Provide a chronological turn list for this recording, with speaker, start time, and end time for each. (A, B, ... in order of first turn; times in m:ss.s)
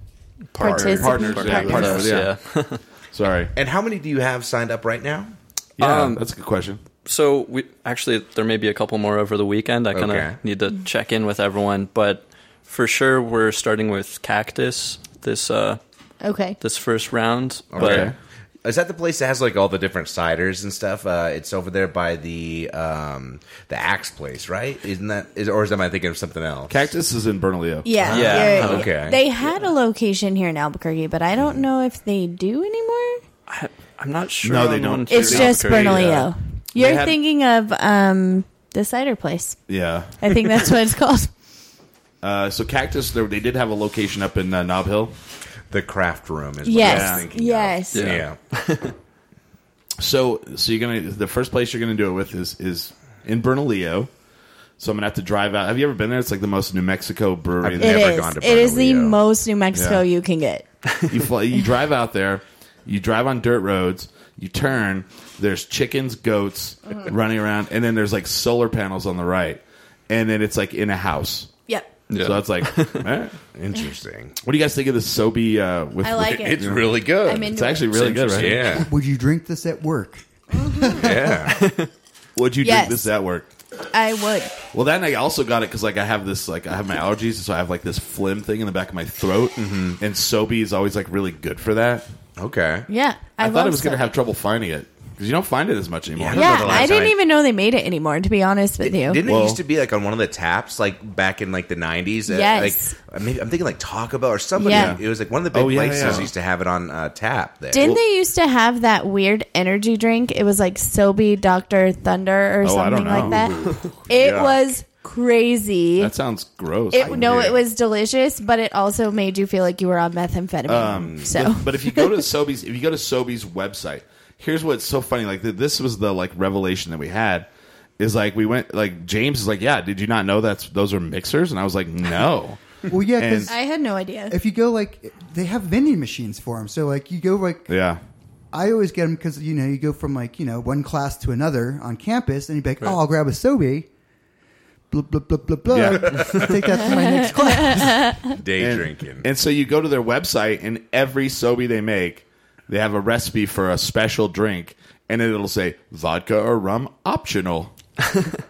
0:00.5-0:02.8 A
0:00.6-0:02.2 B
0:00.6-0:01.9 C
0:00.8-0:03.5 D
0:03.5-0:05.3 C
0:05.8-0:06.8 D
0:05.8-0:06.3 A
0:07.0-0:15.8 A
0:09.9-0:10.4 C
0:16.2-0:16.6 B
0:16.6-0:18.1 A
0:17.7-0:26.7 C
0:17.8-0:18.1 D
0:26.7-0:28.9 D
0:27.8-0:33.2 B
0:28.1-0:28.9 A
0:28.3-0:29.2 C
0:33.5-0:36.2 A
0:34.4-0:37.2 D
0:35.1-0:39.6 B
0:39.7-0:40.2 D
0:40.2-0:41.3 B
0:42.2-0:45.2 D
0:45.7-0:48.4 C
0:46.6-0:48.2 B
0:46.8-0:47.2 D
0:47.9-0:49.0 A
0:50.0-0:54.1 D
0:54.8-0:58.2 D
0:57.6-0:59.2 C
0:57.8-1:00.7 B
0:59.7-1:00.0 D
1:01.1-1:11.6 D
1:11.7-1:11.9 B
1:12.1-1:13.1 A
1:12.1-1:13.4 D
1:13.5-1:14.4 C
1:14.4-1:18.8 D
1:16.0-1:16.6 B
1:16.2-1:18.9 C
1:17.2-1:18.1 B
1:18.3-1:18.7 A
1:18.8-1:21.1 E
1:20.5-1:21.4 B
1:20.9-1:21.6 C
1:21.5-1:21.9 A
1:22.4-1:23.5 D
1:22.6-1:23.1 B
1:23.9-1:24.6 B
1:24.7-1:32.1 D
1:29.6-1:30.0 C
1:32.4-1:32.9 C
1:32.9-1:34.1 B
1:33.4-1:36.9 D
1:36.2-1:37.2 C
1:36.3-1:39.2 B
1:38.8-1:47.9 C
1:39.2-1:39.6 D
1:42.3-1:42.9 B
1:44.6-1:45.0 B
1:44.6-1:45.0 D
1:45.5-1:46.3 D
1:47.7-1:56.1 B
1:52.6-1:54.6 D
1:56.0-1:57.6 D
1:56.9-2:02.2 B
1:57.0-1:57.6 C
2:00.7-2:07.5 D
2:00.8-2:01.3 C
2:08.0-2:13.5 D
2:12.9-2:13.5 E
2:13.5-2:14.4 B
2:14.3-2:17.7 E
2:17.7-2:18.0 D
2:18.5-2:23.9 E
2:24.9-2:28.2 E
2:25.7-2:26.6 D
2:26.1-2:26.7 C
2:26.8-2:28.3 B
2:28.3-2:29.3 C
2:28.6-2:37.7 D